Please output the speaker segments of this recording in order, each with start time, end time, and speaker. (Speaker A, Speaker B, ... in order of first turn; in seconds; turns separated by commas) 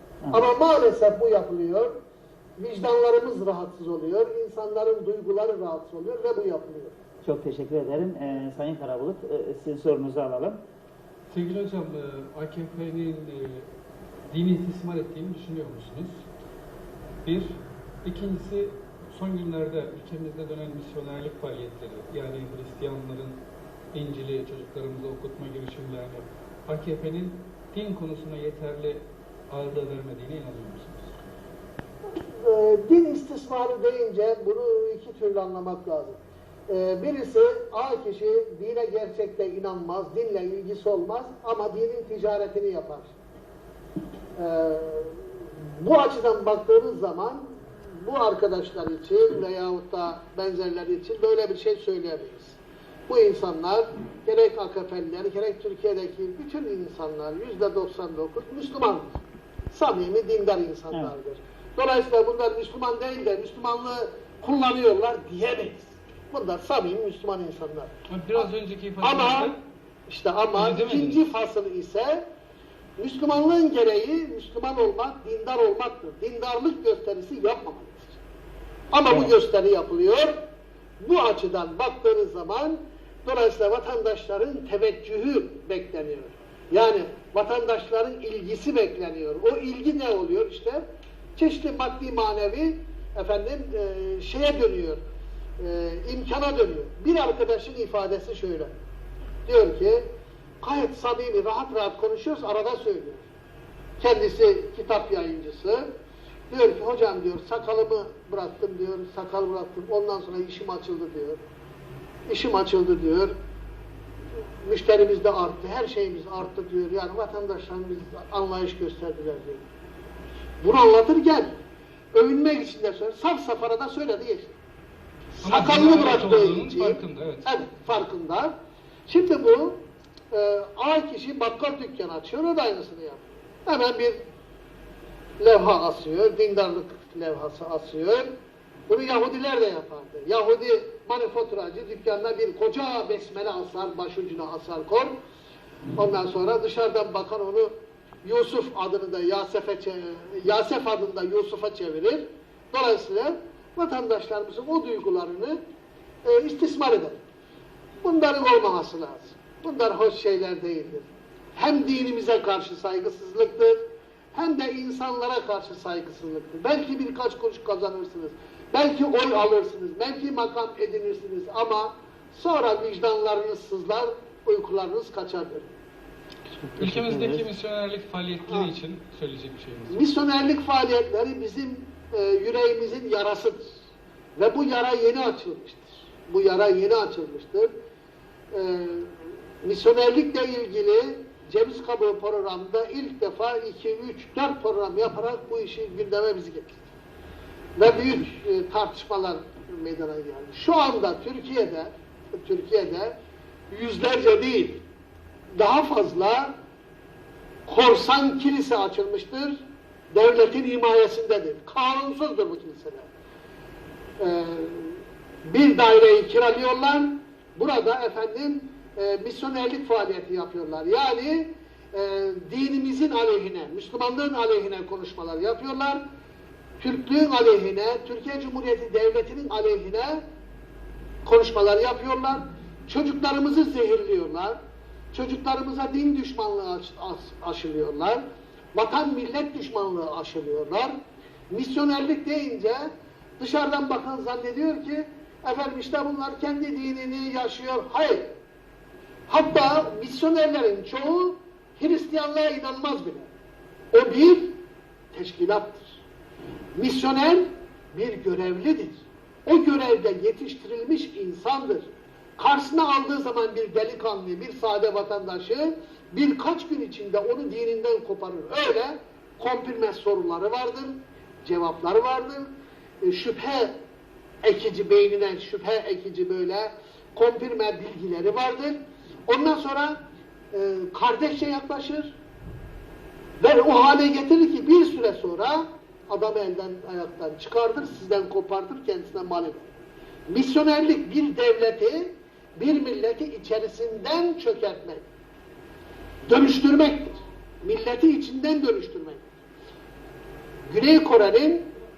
Speaker A: 0.3-2.0, Speaker A: 2.6-7.0, Speaker B: 7.2-10.6, Speaker C: 11.3-13.7, Speaker C: 14.3-16.2, Speaker C: 17.2-23.4, Speaker C: 23.9-31.1, Speaker A: 32.1-43.1, Speaker A: 44.4-68.5, Speaker C: 68.1-69.6, Speaker A: 69.0-69.5, Speaker A: 70.1-72.2, Speaker C: 70.5-71.3, Speaker A: 73.0-78.2, Speaker A: 78.9-80.4, Speaker A: 81.0-90.8, Speaker A: 91.3-95.0, Speaker A: 95.6-98.7, Speaker A: 99.5-100.0, Speaker A: 100.6-103.2, Speaker A: 104.0-105.9, Speaker A: 106.5-111.4, Speaker A: 112.3-113.3, Speaker A: 114.6-119.6, Speaker A: 120.6-121.5, Speaker A: 122.1-124.6, Speaker C: 125.4-127.5, Speaker A: 125.4-128.5, Speaker A: 129.1-134.2, Speaker A: 135.4-138.3, Speaker A: 138.9-145.1, Speaker A: 145.9-147.7, Speaker A: 148.2-155.6, Speaker A: 156.2-157.2, Speaker A: 158.0-163.8, Speaker A: 164.3-175.7, Speaker B: 176.5-177.4, Speaker C: 176.8-180.0, Speaker A: 179.9-183.8, Speaker A: 184.3-187.7, Speaker A: 188.5-196.9, Speaker A: 197.8-203.2, Speaker A: 203.7-204.8, Speaker A: 205.5-206.5, Speaker A: 207.7-209.6, Speaker A: 210.1-213.1, Speaker A: 214.2-226.0, Speaker A: 226.8-230.2, Speaker A: 231.2-234.6, Speaker A: 235.1-238.2, Speaker A: 238.7-240.9, Speaker A: 241.5-248.3, Speaker A: 249.3-253.3, Speaker A: 253.9-254.5, Speaker A: 255.1-256.0, Speaker A: 256.7-272.5, Speaker A: 273.0-273.8, Speaker A: 274.4-280.0, Speaker A: 280.5-282.1, Speaker A: 283.4-289.7, Speaker A: 290.3-295.1, Speaker A: 296.3-299.2, Speaker A: 300.7-301.7